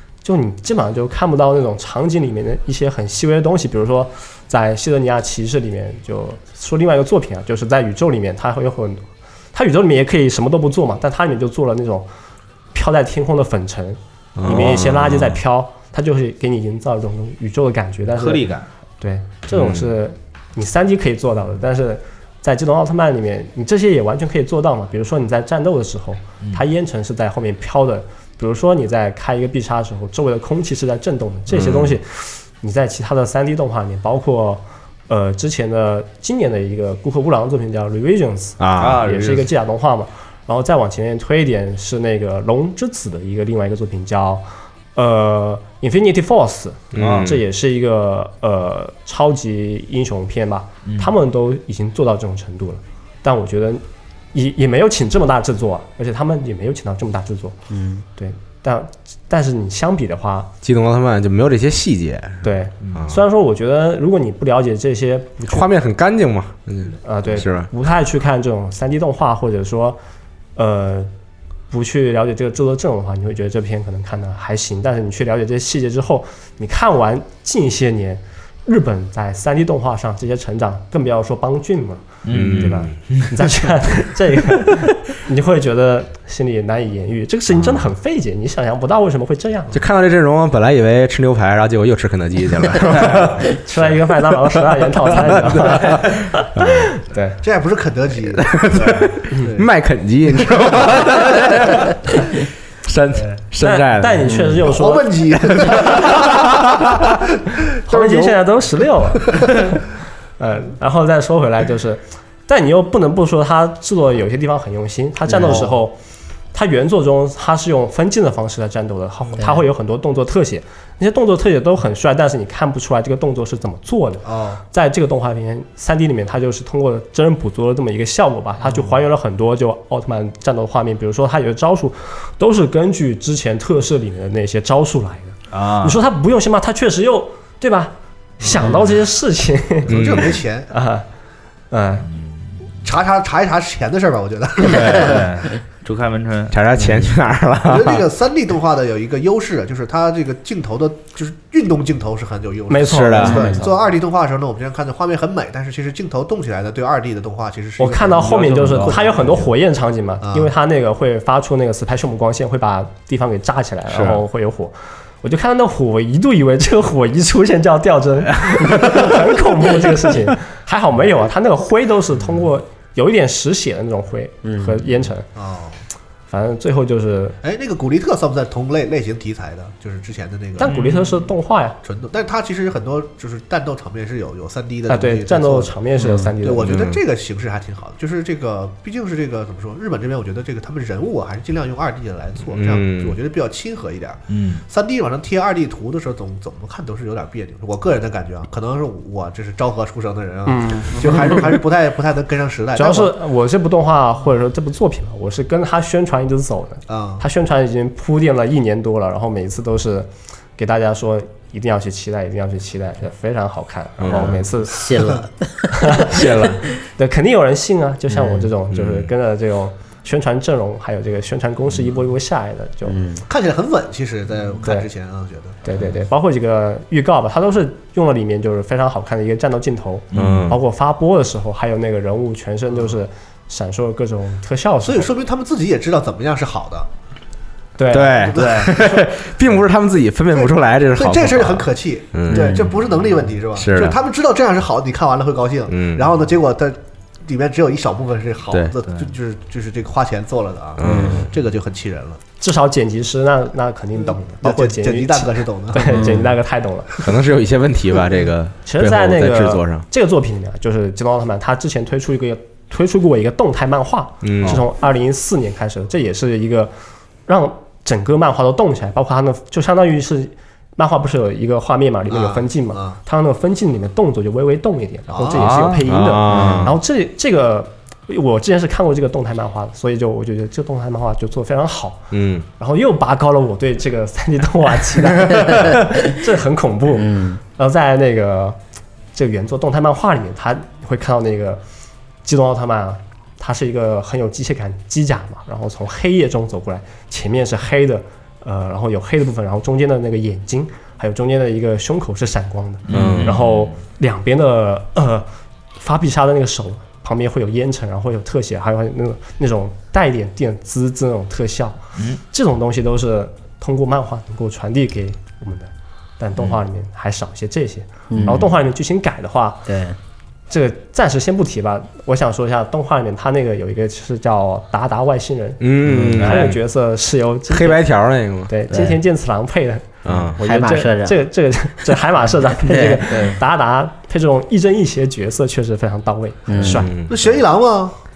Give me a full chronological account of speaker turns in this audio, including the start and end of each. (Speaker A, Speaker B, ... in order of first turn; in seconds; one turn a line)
Speaker A: 0.2-12.1
Speaker A: 12.7-18.4
Speaker B: 14.3-15.4
Speaker C: 18.2-18.7
Speaker A: 19.0-53.8
Speaker B: 19.5-19.9
Speaker B: 31.5-32.0
Speaker B: 38.6-39.0
Speaker C: 38.8-39.5
Speaker B: 46.9-47.4
Speaker C: 47.0-47.3
Speaker C: 50.9-51.1
Speaker A: 54.3-57.6
Speaker D: 57.7-58.0
Speaker A: 58.2-60.5
Speaker B: 60.6-63.2
Speaker A: 62.4-65.7
Speaker B: 65.5-67.7
Speaker A: 67.0-70.0
Speaker A: 70.5-71.1
Speaker A: 71.7-89.7
Speaker C: 82.2-83.3
Speaker B: 82.3-82.9
Speaker B: 89.7-93.5
Speaker A: 93.4-97.4
Speaker B: 94.7-96.9
Speaker E: 97.4-99.7
Speaker B: 98.4-102.2
Speaker E: 100.6-101.1
Speaker B: 102.8-104.4
Speaker A: 103.6-106.0
Speaker D: 104.2-104.6
Speaker E: 104.6-106.6
Speaker B: 105.4-107.1
Speaker E: 107.8-108.4
Speaker A: 107.8-109.8
Speaker E: 109.2-109.5
Speaker A: 110.4-116.0
Speaker D: 115.3-115.7
Speaker E: 115.4-115.7
Speaker A: 116.5-139.9
Speaker E: 124.2-124.6
Speaker E: 128.7-129.0
Speaker C: 135.5-136.0
Speaker E: 138.4-138.8
Speaker E: 139.9-140.7
Speaker B: 139.9-140.4
Speaker A: 140.7-141.1
Speaker A: 141.7-142.1
Speaker C: 142.1-142.4
Speaker E: 142.8-145.3
Speaker B: 144.8-145.1
Speaker C: 144.9-146.6
Speaker B: 146.5-148.0
Speaker E: 147.7-159.3
Speaker A: 152.7-153.7
Speaker B: 152.8-153.5
Speaker D: 153.3-153.7
Speaker A: 157.8-175.3
Speaker C: 158.2-159.4
Speaker E: 160.2-160.5
Speaker C: 163.9-164.2
Speaker D: 174.4-174.8
Speaker E: 175.3-175.8
Speaker A: 176.3-177.4
Speaker E: 177.4-180.7
Speaker A: 180.6-181.8
Speaker C: 180.6-181.2
Speaker E: 181.8-185.8
Speaker A: 184.9-186.8
Speaker D: 186.0-186.3
Speaker E: 186.4-203.1
Speaker B: 186.6-187.0
Speaker B: 192.5-193.2
Speaker C: 194.3-194.6
Speaker A: 200.4-201.5
Speaker A: 202.7-215.1
Speaker E: 206.9-207.2
Speaker B: 214.0-214.4
Speaker D: 214.1-216.2
Speaker A: 215.7-216.2
Speaker B: 216.1-216.6
Speaker A: 216.9-223.0
Speaker D: 218.1-218.5
Speaker B: 218.7-219.1
Speaker D: 222.8-223.2
Speaker E: 223.2-225.6
Speaker A: 224.6-224.9
Speaker A: 225.6-235.1
Speaker C: 230.1-230.5
Speaker B: 230.1-230.6
Speaker E: 234.8-236.9
Speaker A: 237.8-238.3
Speaker B: 237.9-242.6
Speaker E: 238.0-239.2
Speaker E: 240.3-252.2
Speaker B: 243.6-244.0
Speaker B: 245.7-246.1
Speaker B: 248.5-248.8
Speaker B: 250.8-251.3
Speaker D: 250.8-251.2
Speaker A: 252.4-257.0
Speaker E: 254.0-256.1
Speaker D: 255.9-256.3
Speaker B: 257.0-259.8
Speaker A: 258.6-266.7
Speaker B: 264.2-264.6
Speaker A: 267.3-282.0
Speaker E: 272.1-273.0
Speaker E: 275.1-275.7
Speaker C: 275.3-275.8
Speaker B: 275.9-276.8
Speaker B: 282.1-282.5
Speaker A: 282.6-288.6
Speaker D: 286.9-287.4
Speaker A: 289.1-291.6
Speaker A: 292.2-311.8
Speaker C: 302.9-303.6
Speaker B: 302.9-303.4
Speaker A: 312.3-319.7
Speaker D: 318.1-318.5
Speaker D: 319.7-320.0
Speaker A: 320.5-327.9
Speaker B: 325.6-326.6
Speaker D: 325.9-326.4
Speaker B: 327.5-328.5
Speaker A: 328.5-336.9
Speaker D: 328.7-329.0
Speaker B: 330.0-330.4
Speaker D: 330.2-331.2
Speaker D: 332.6-333.4
Speaker D: 336.5-336.9
Speaker B: 336.6-337.3
Speaker E: 337.1-337.9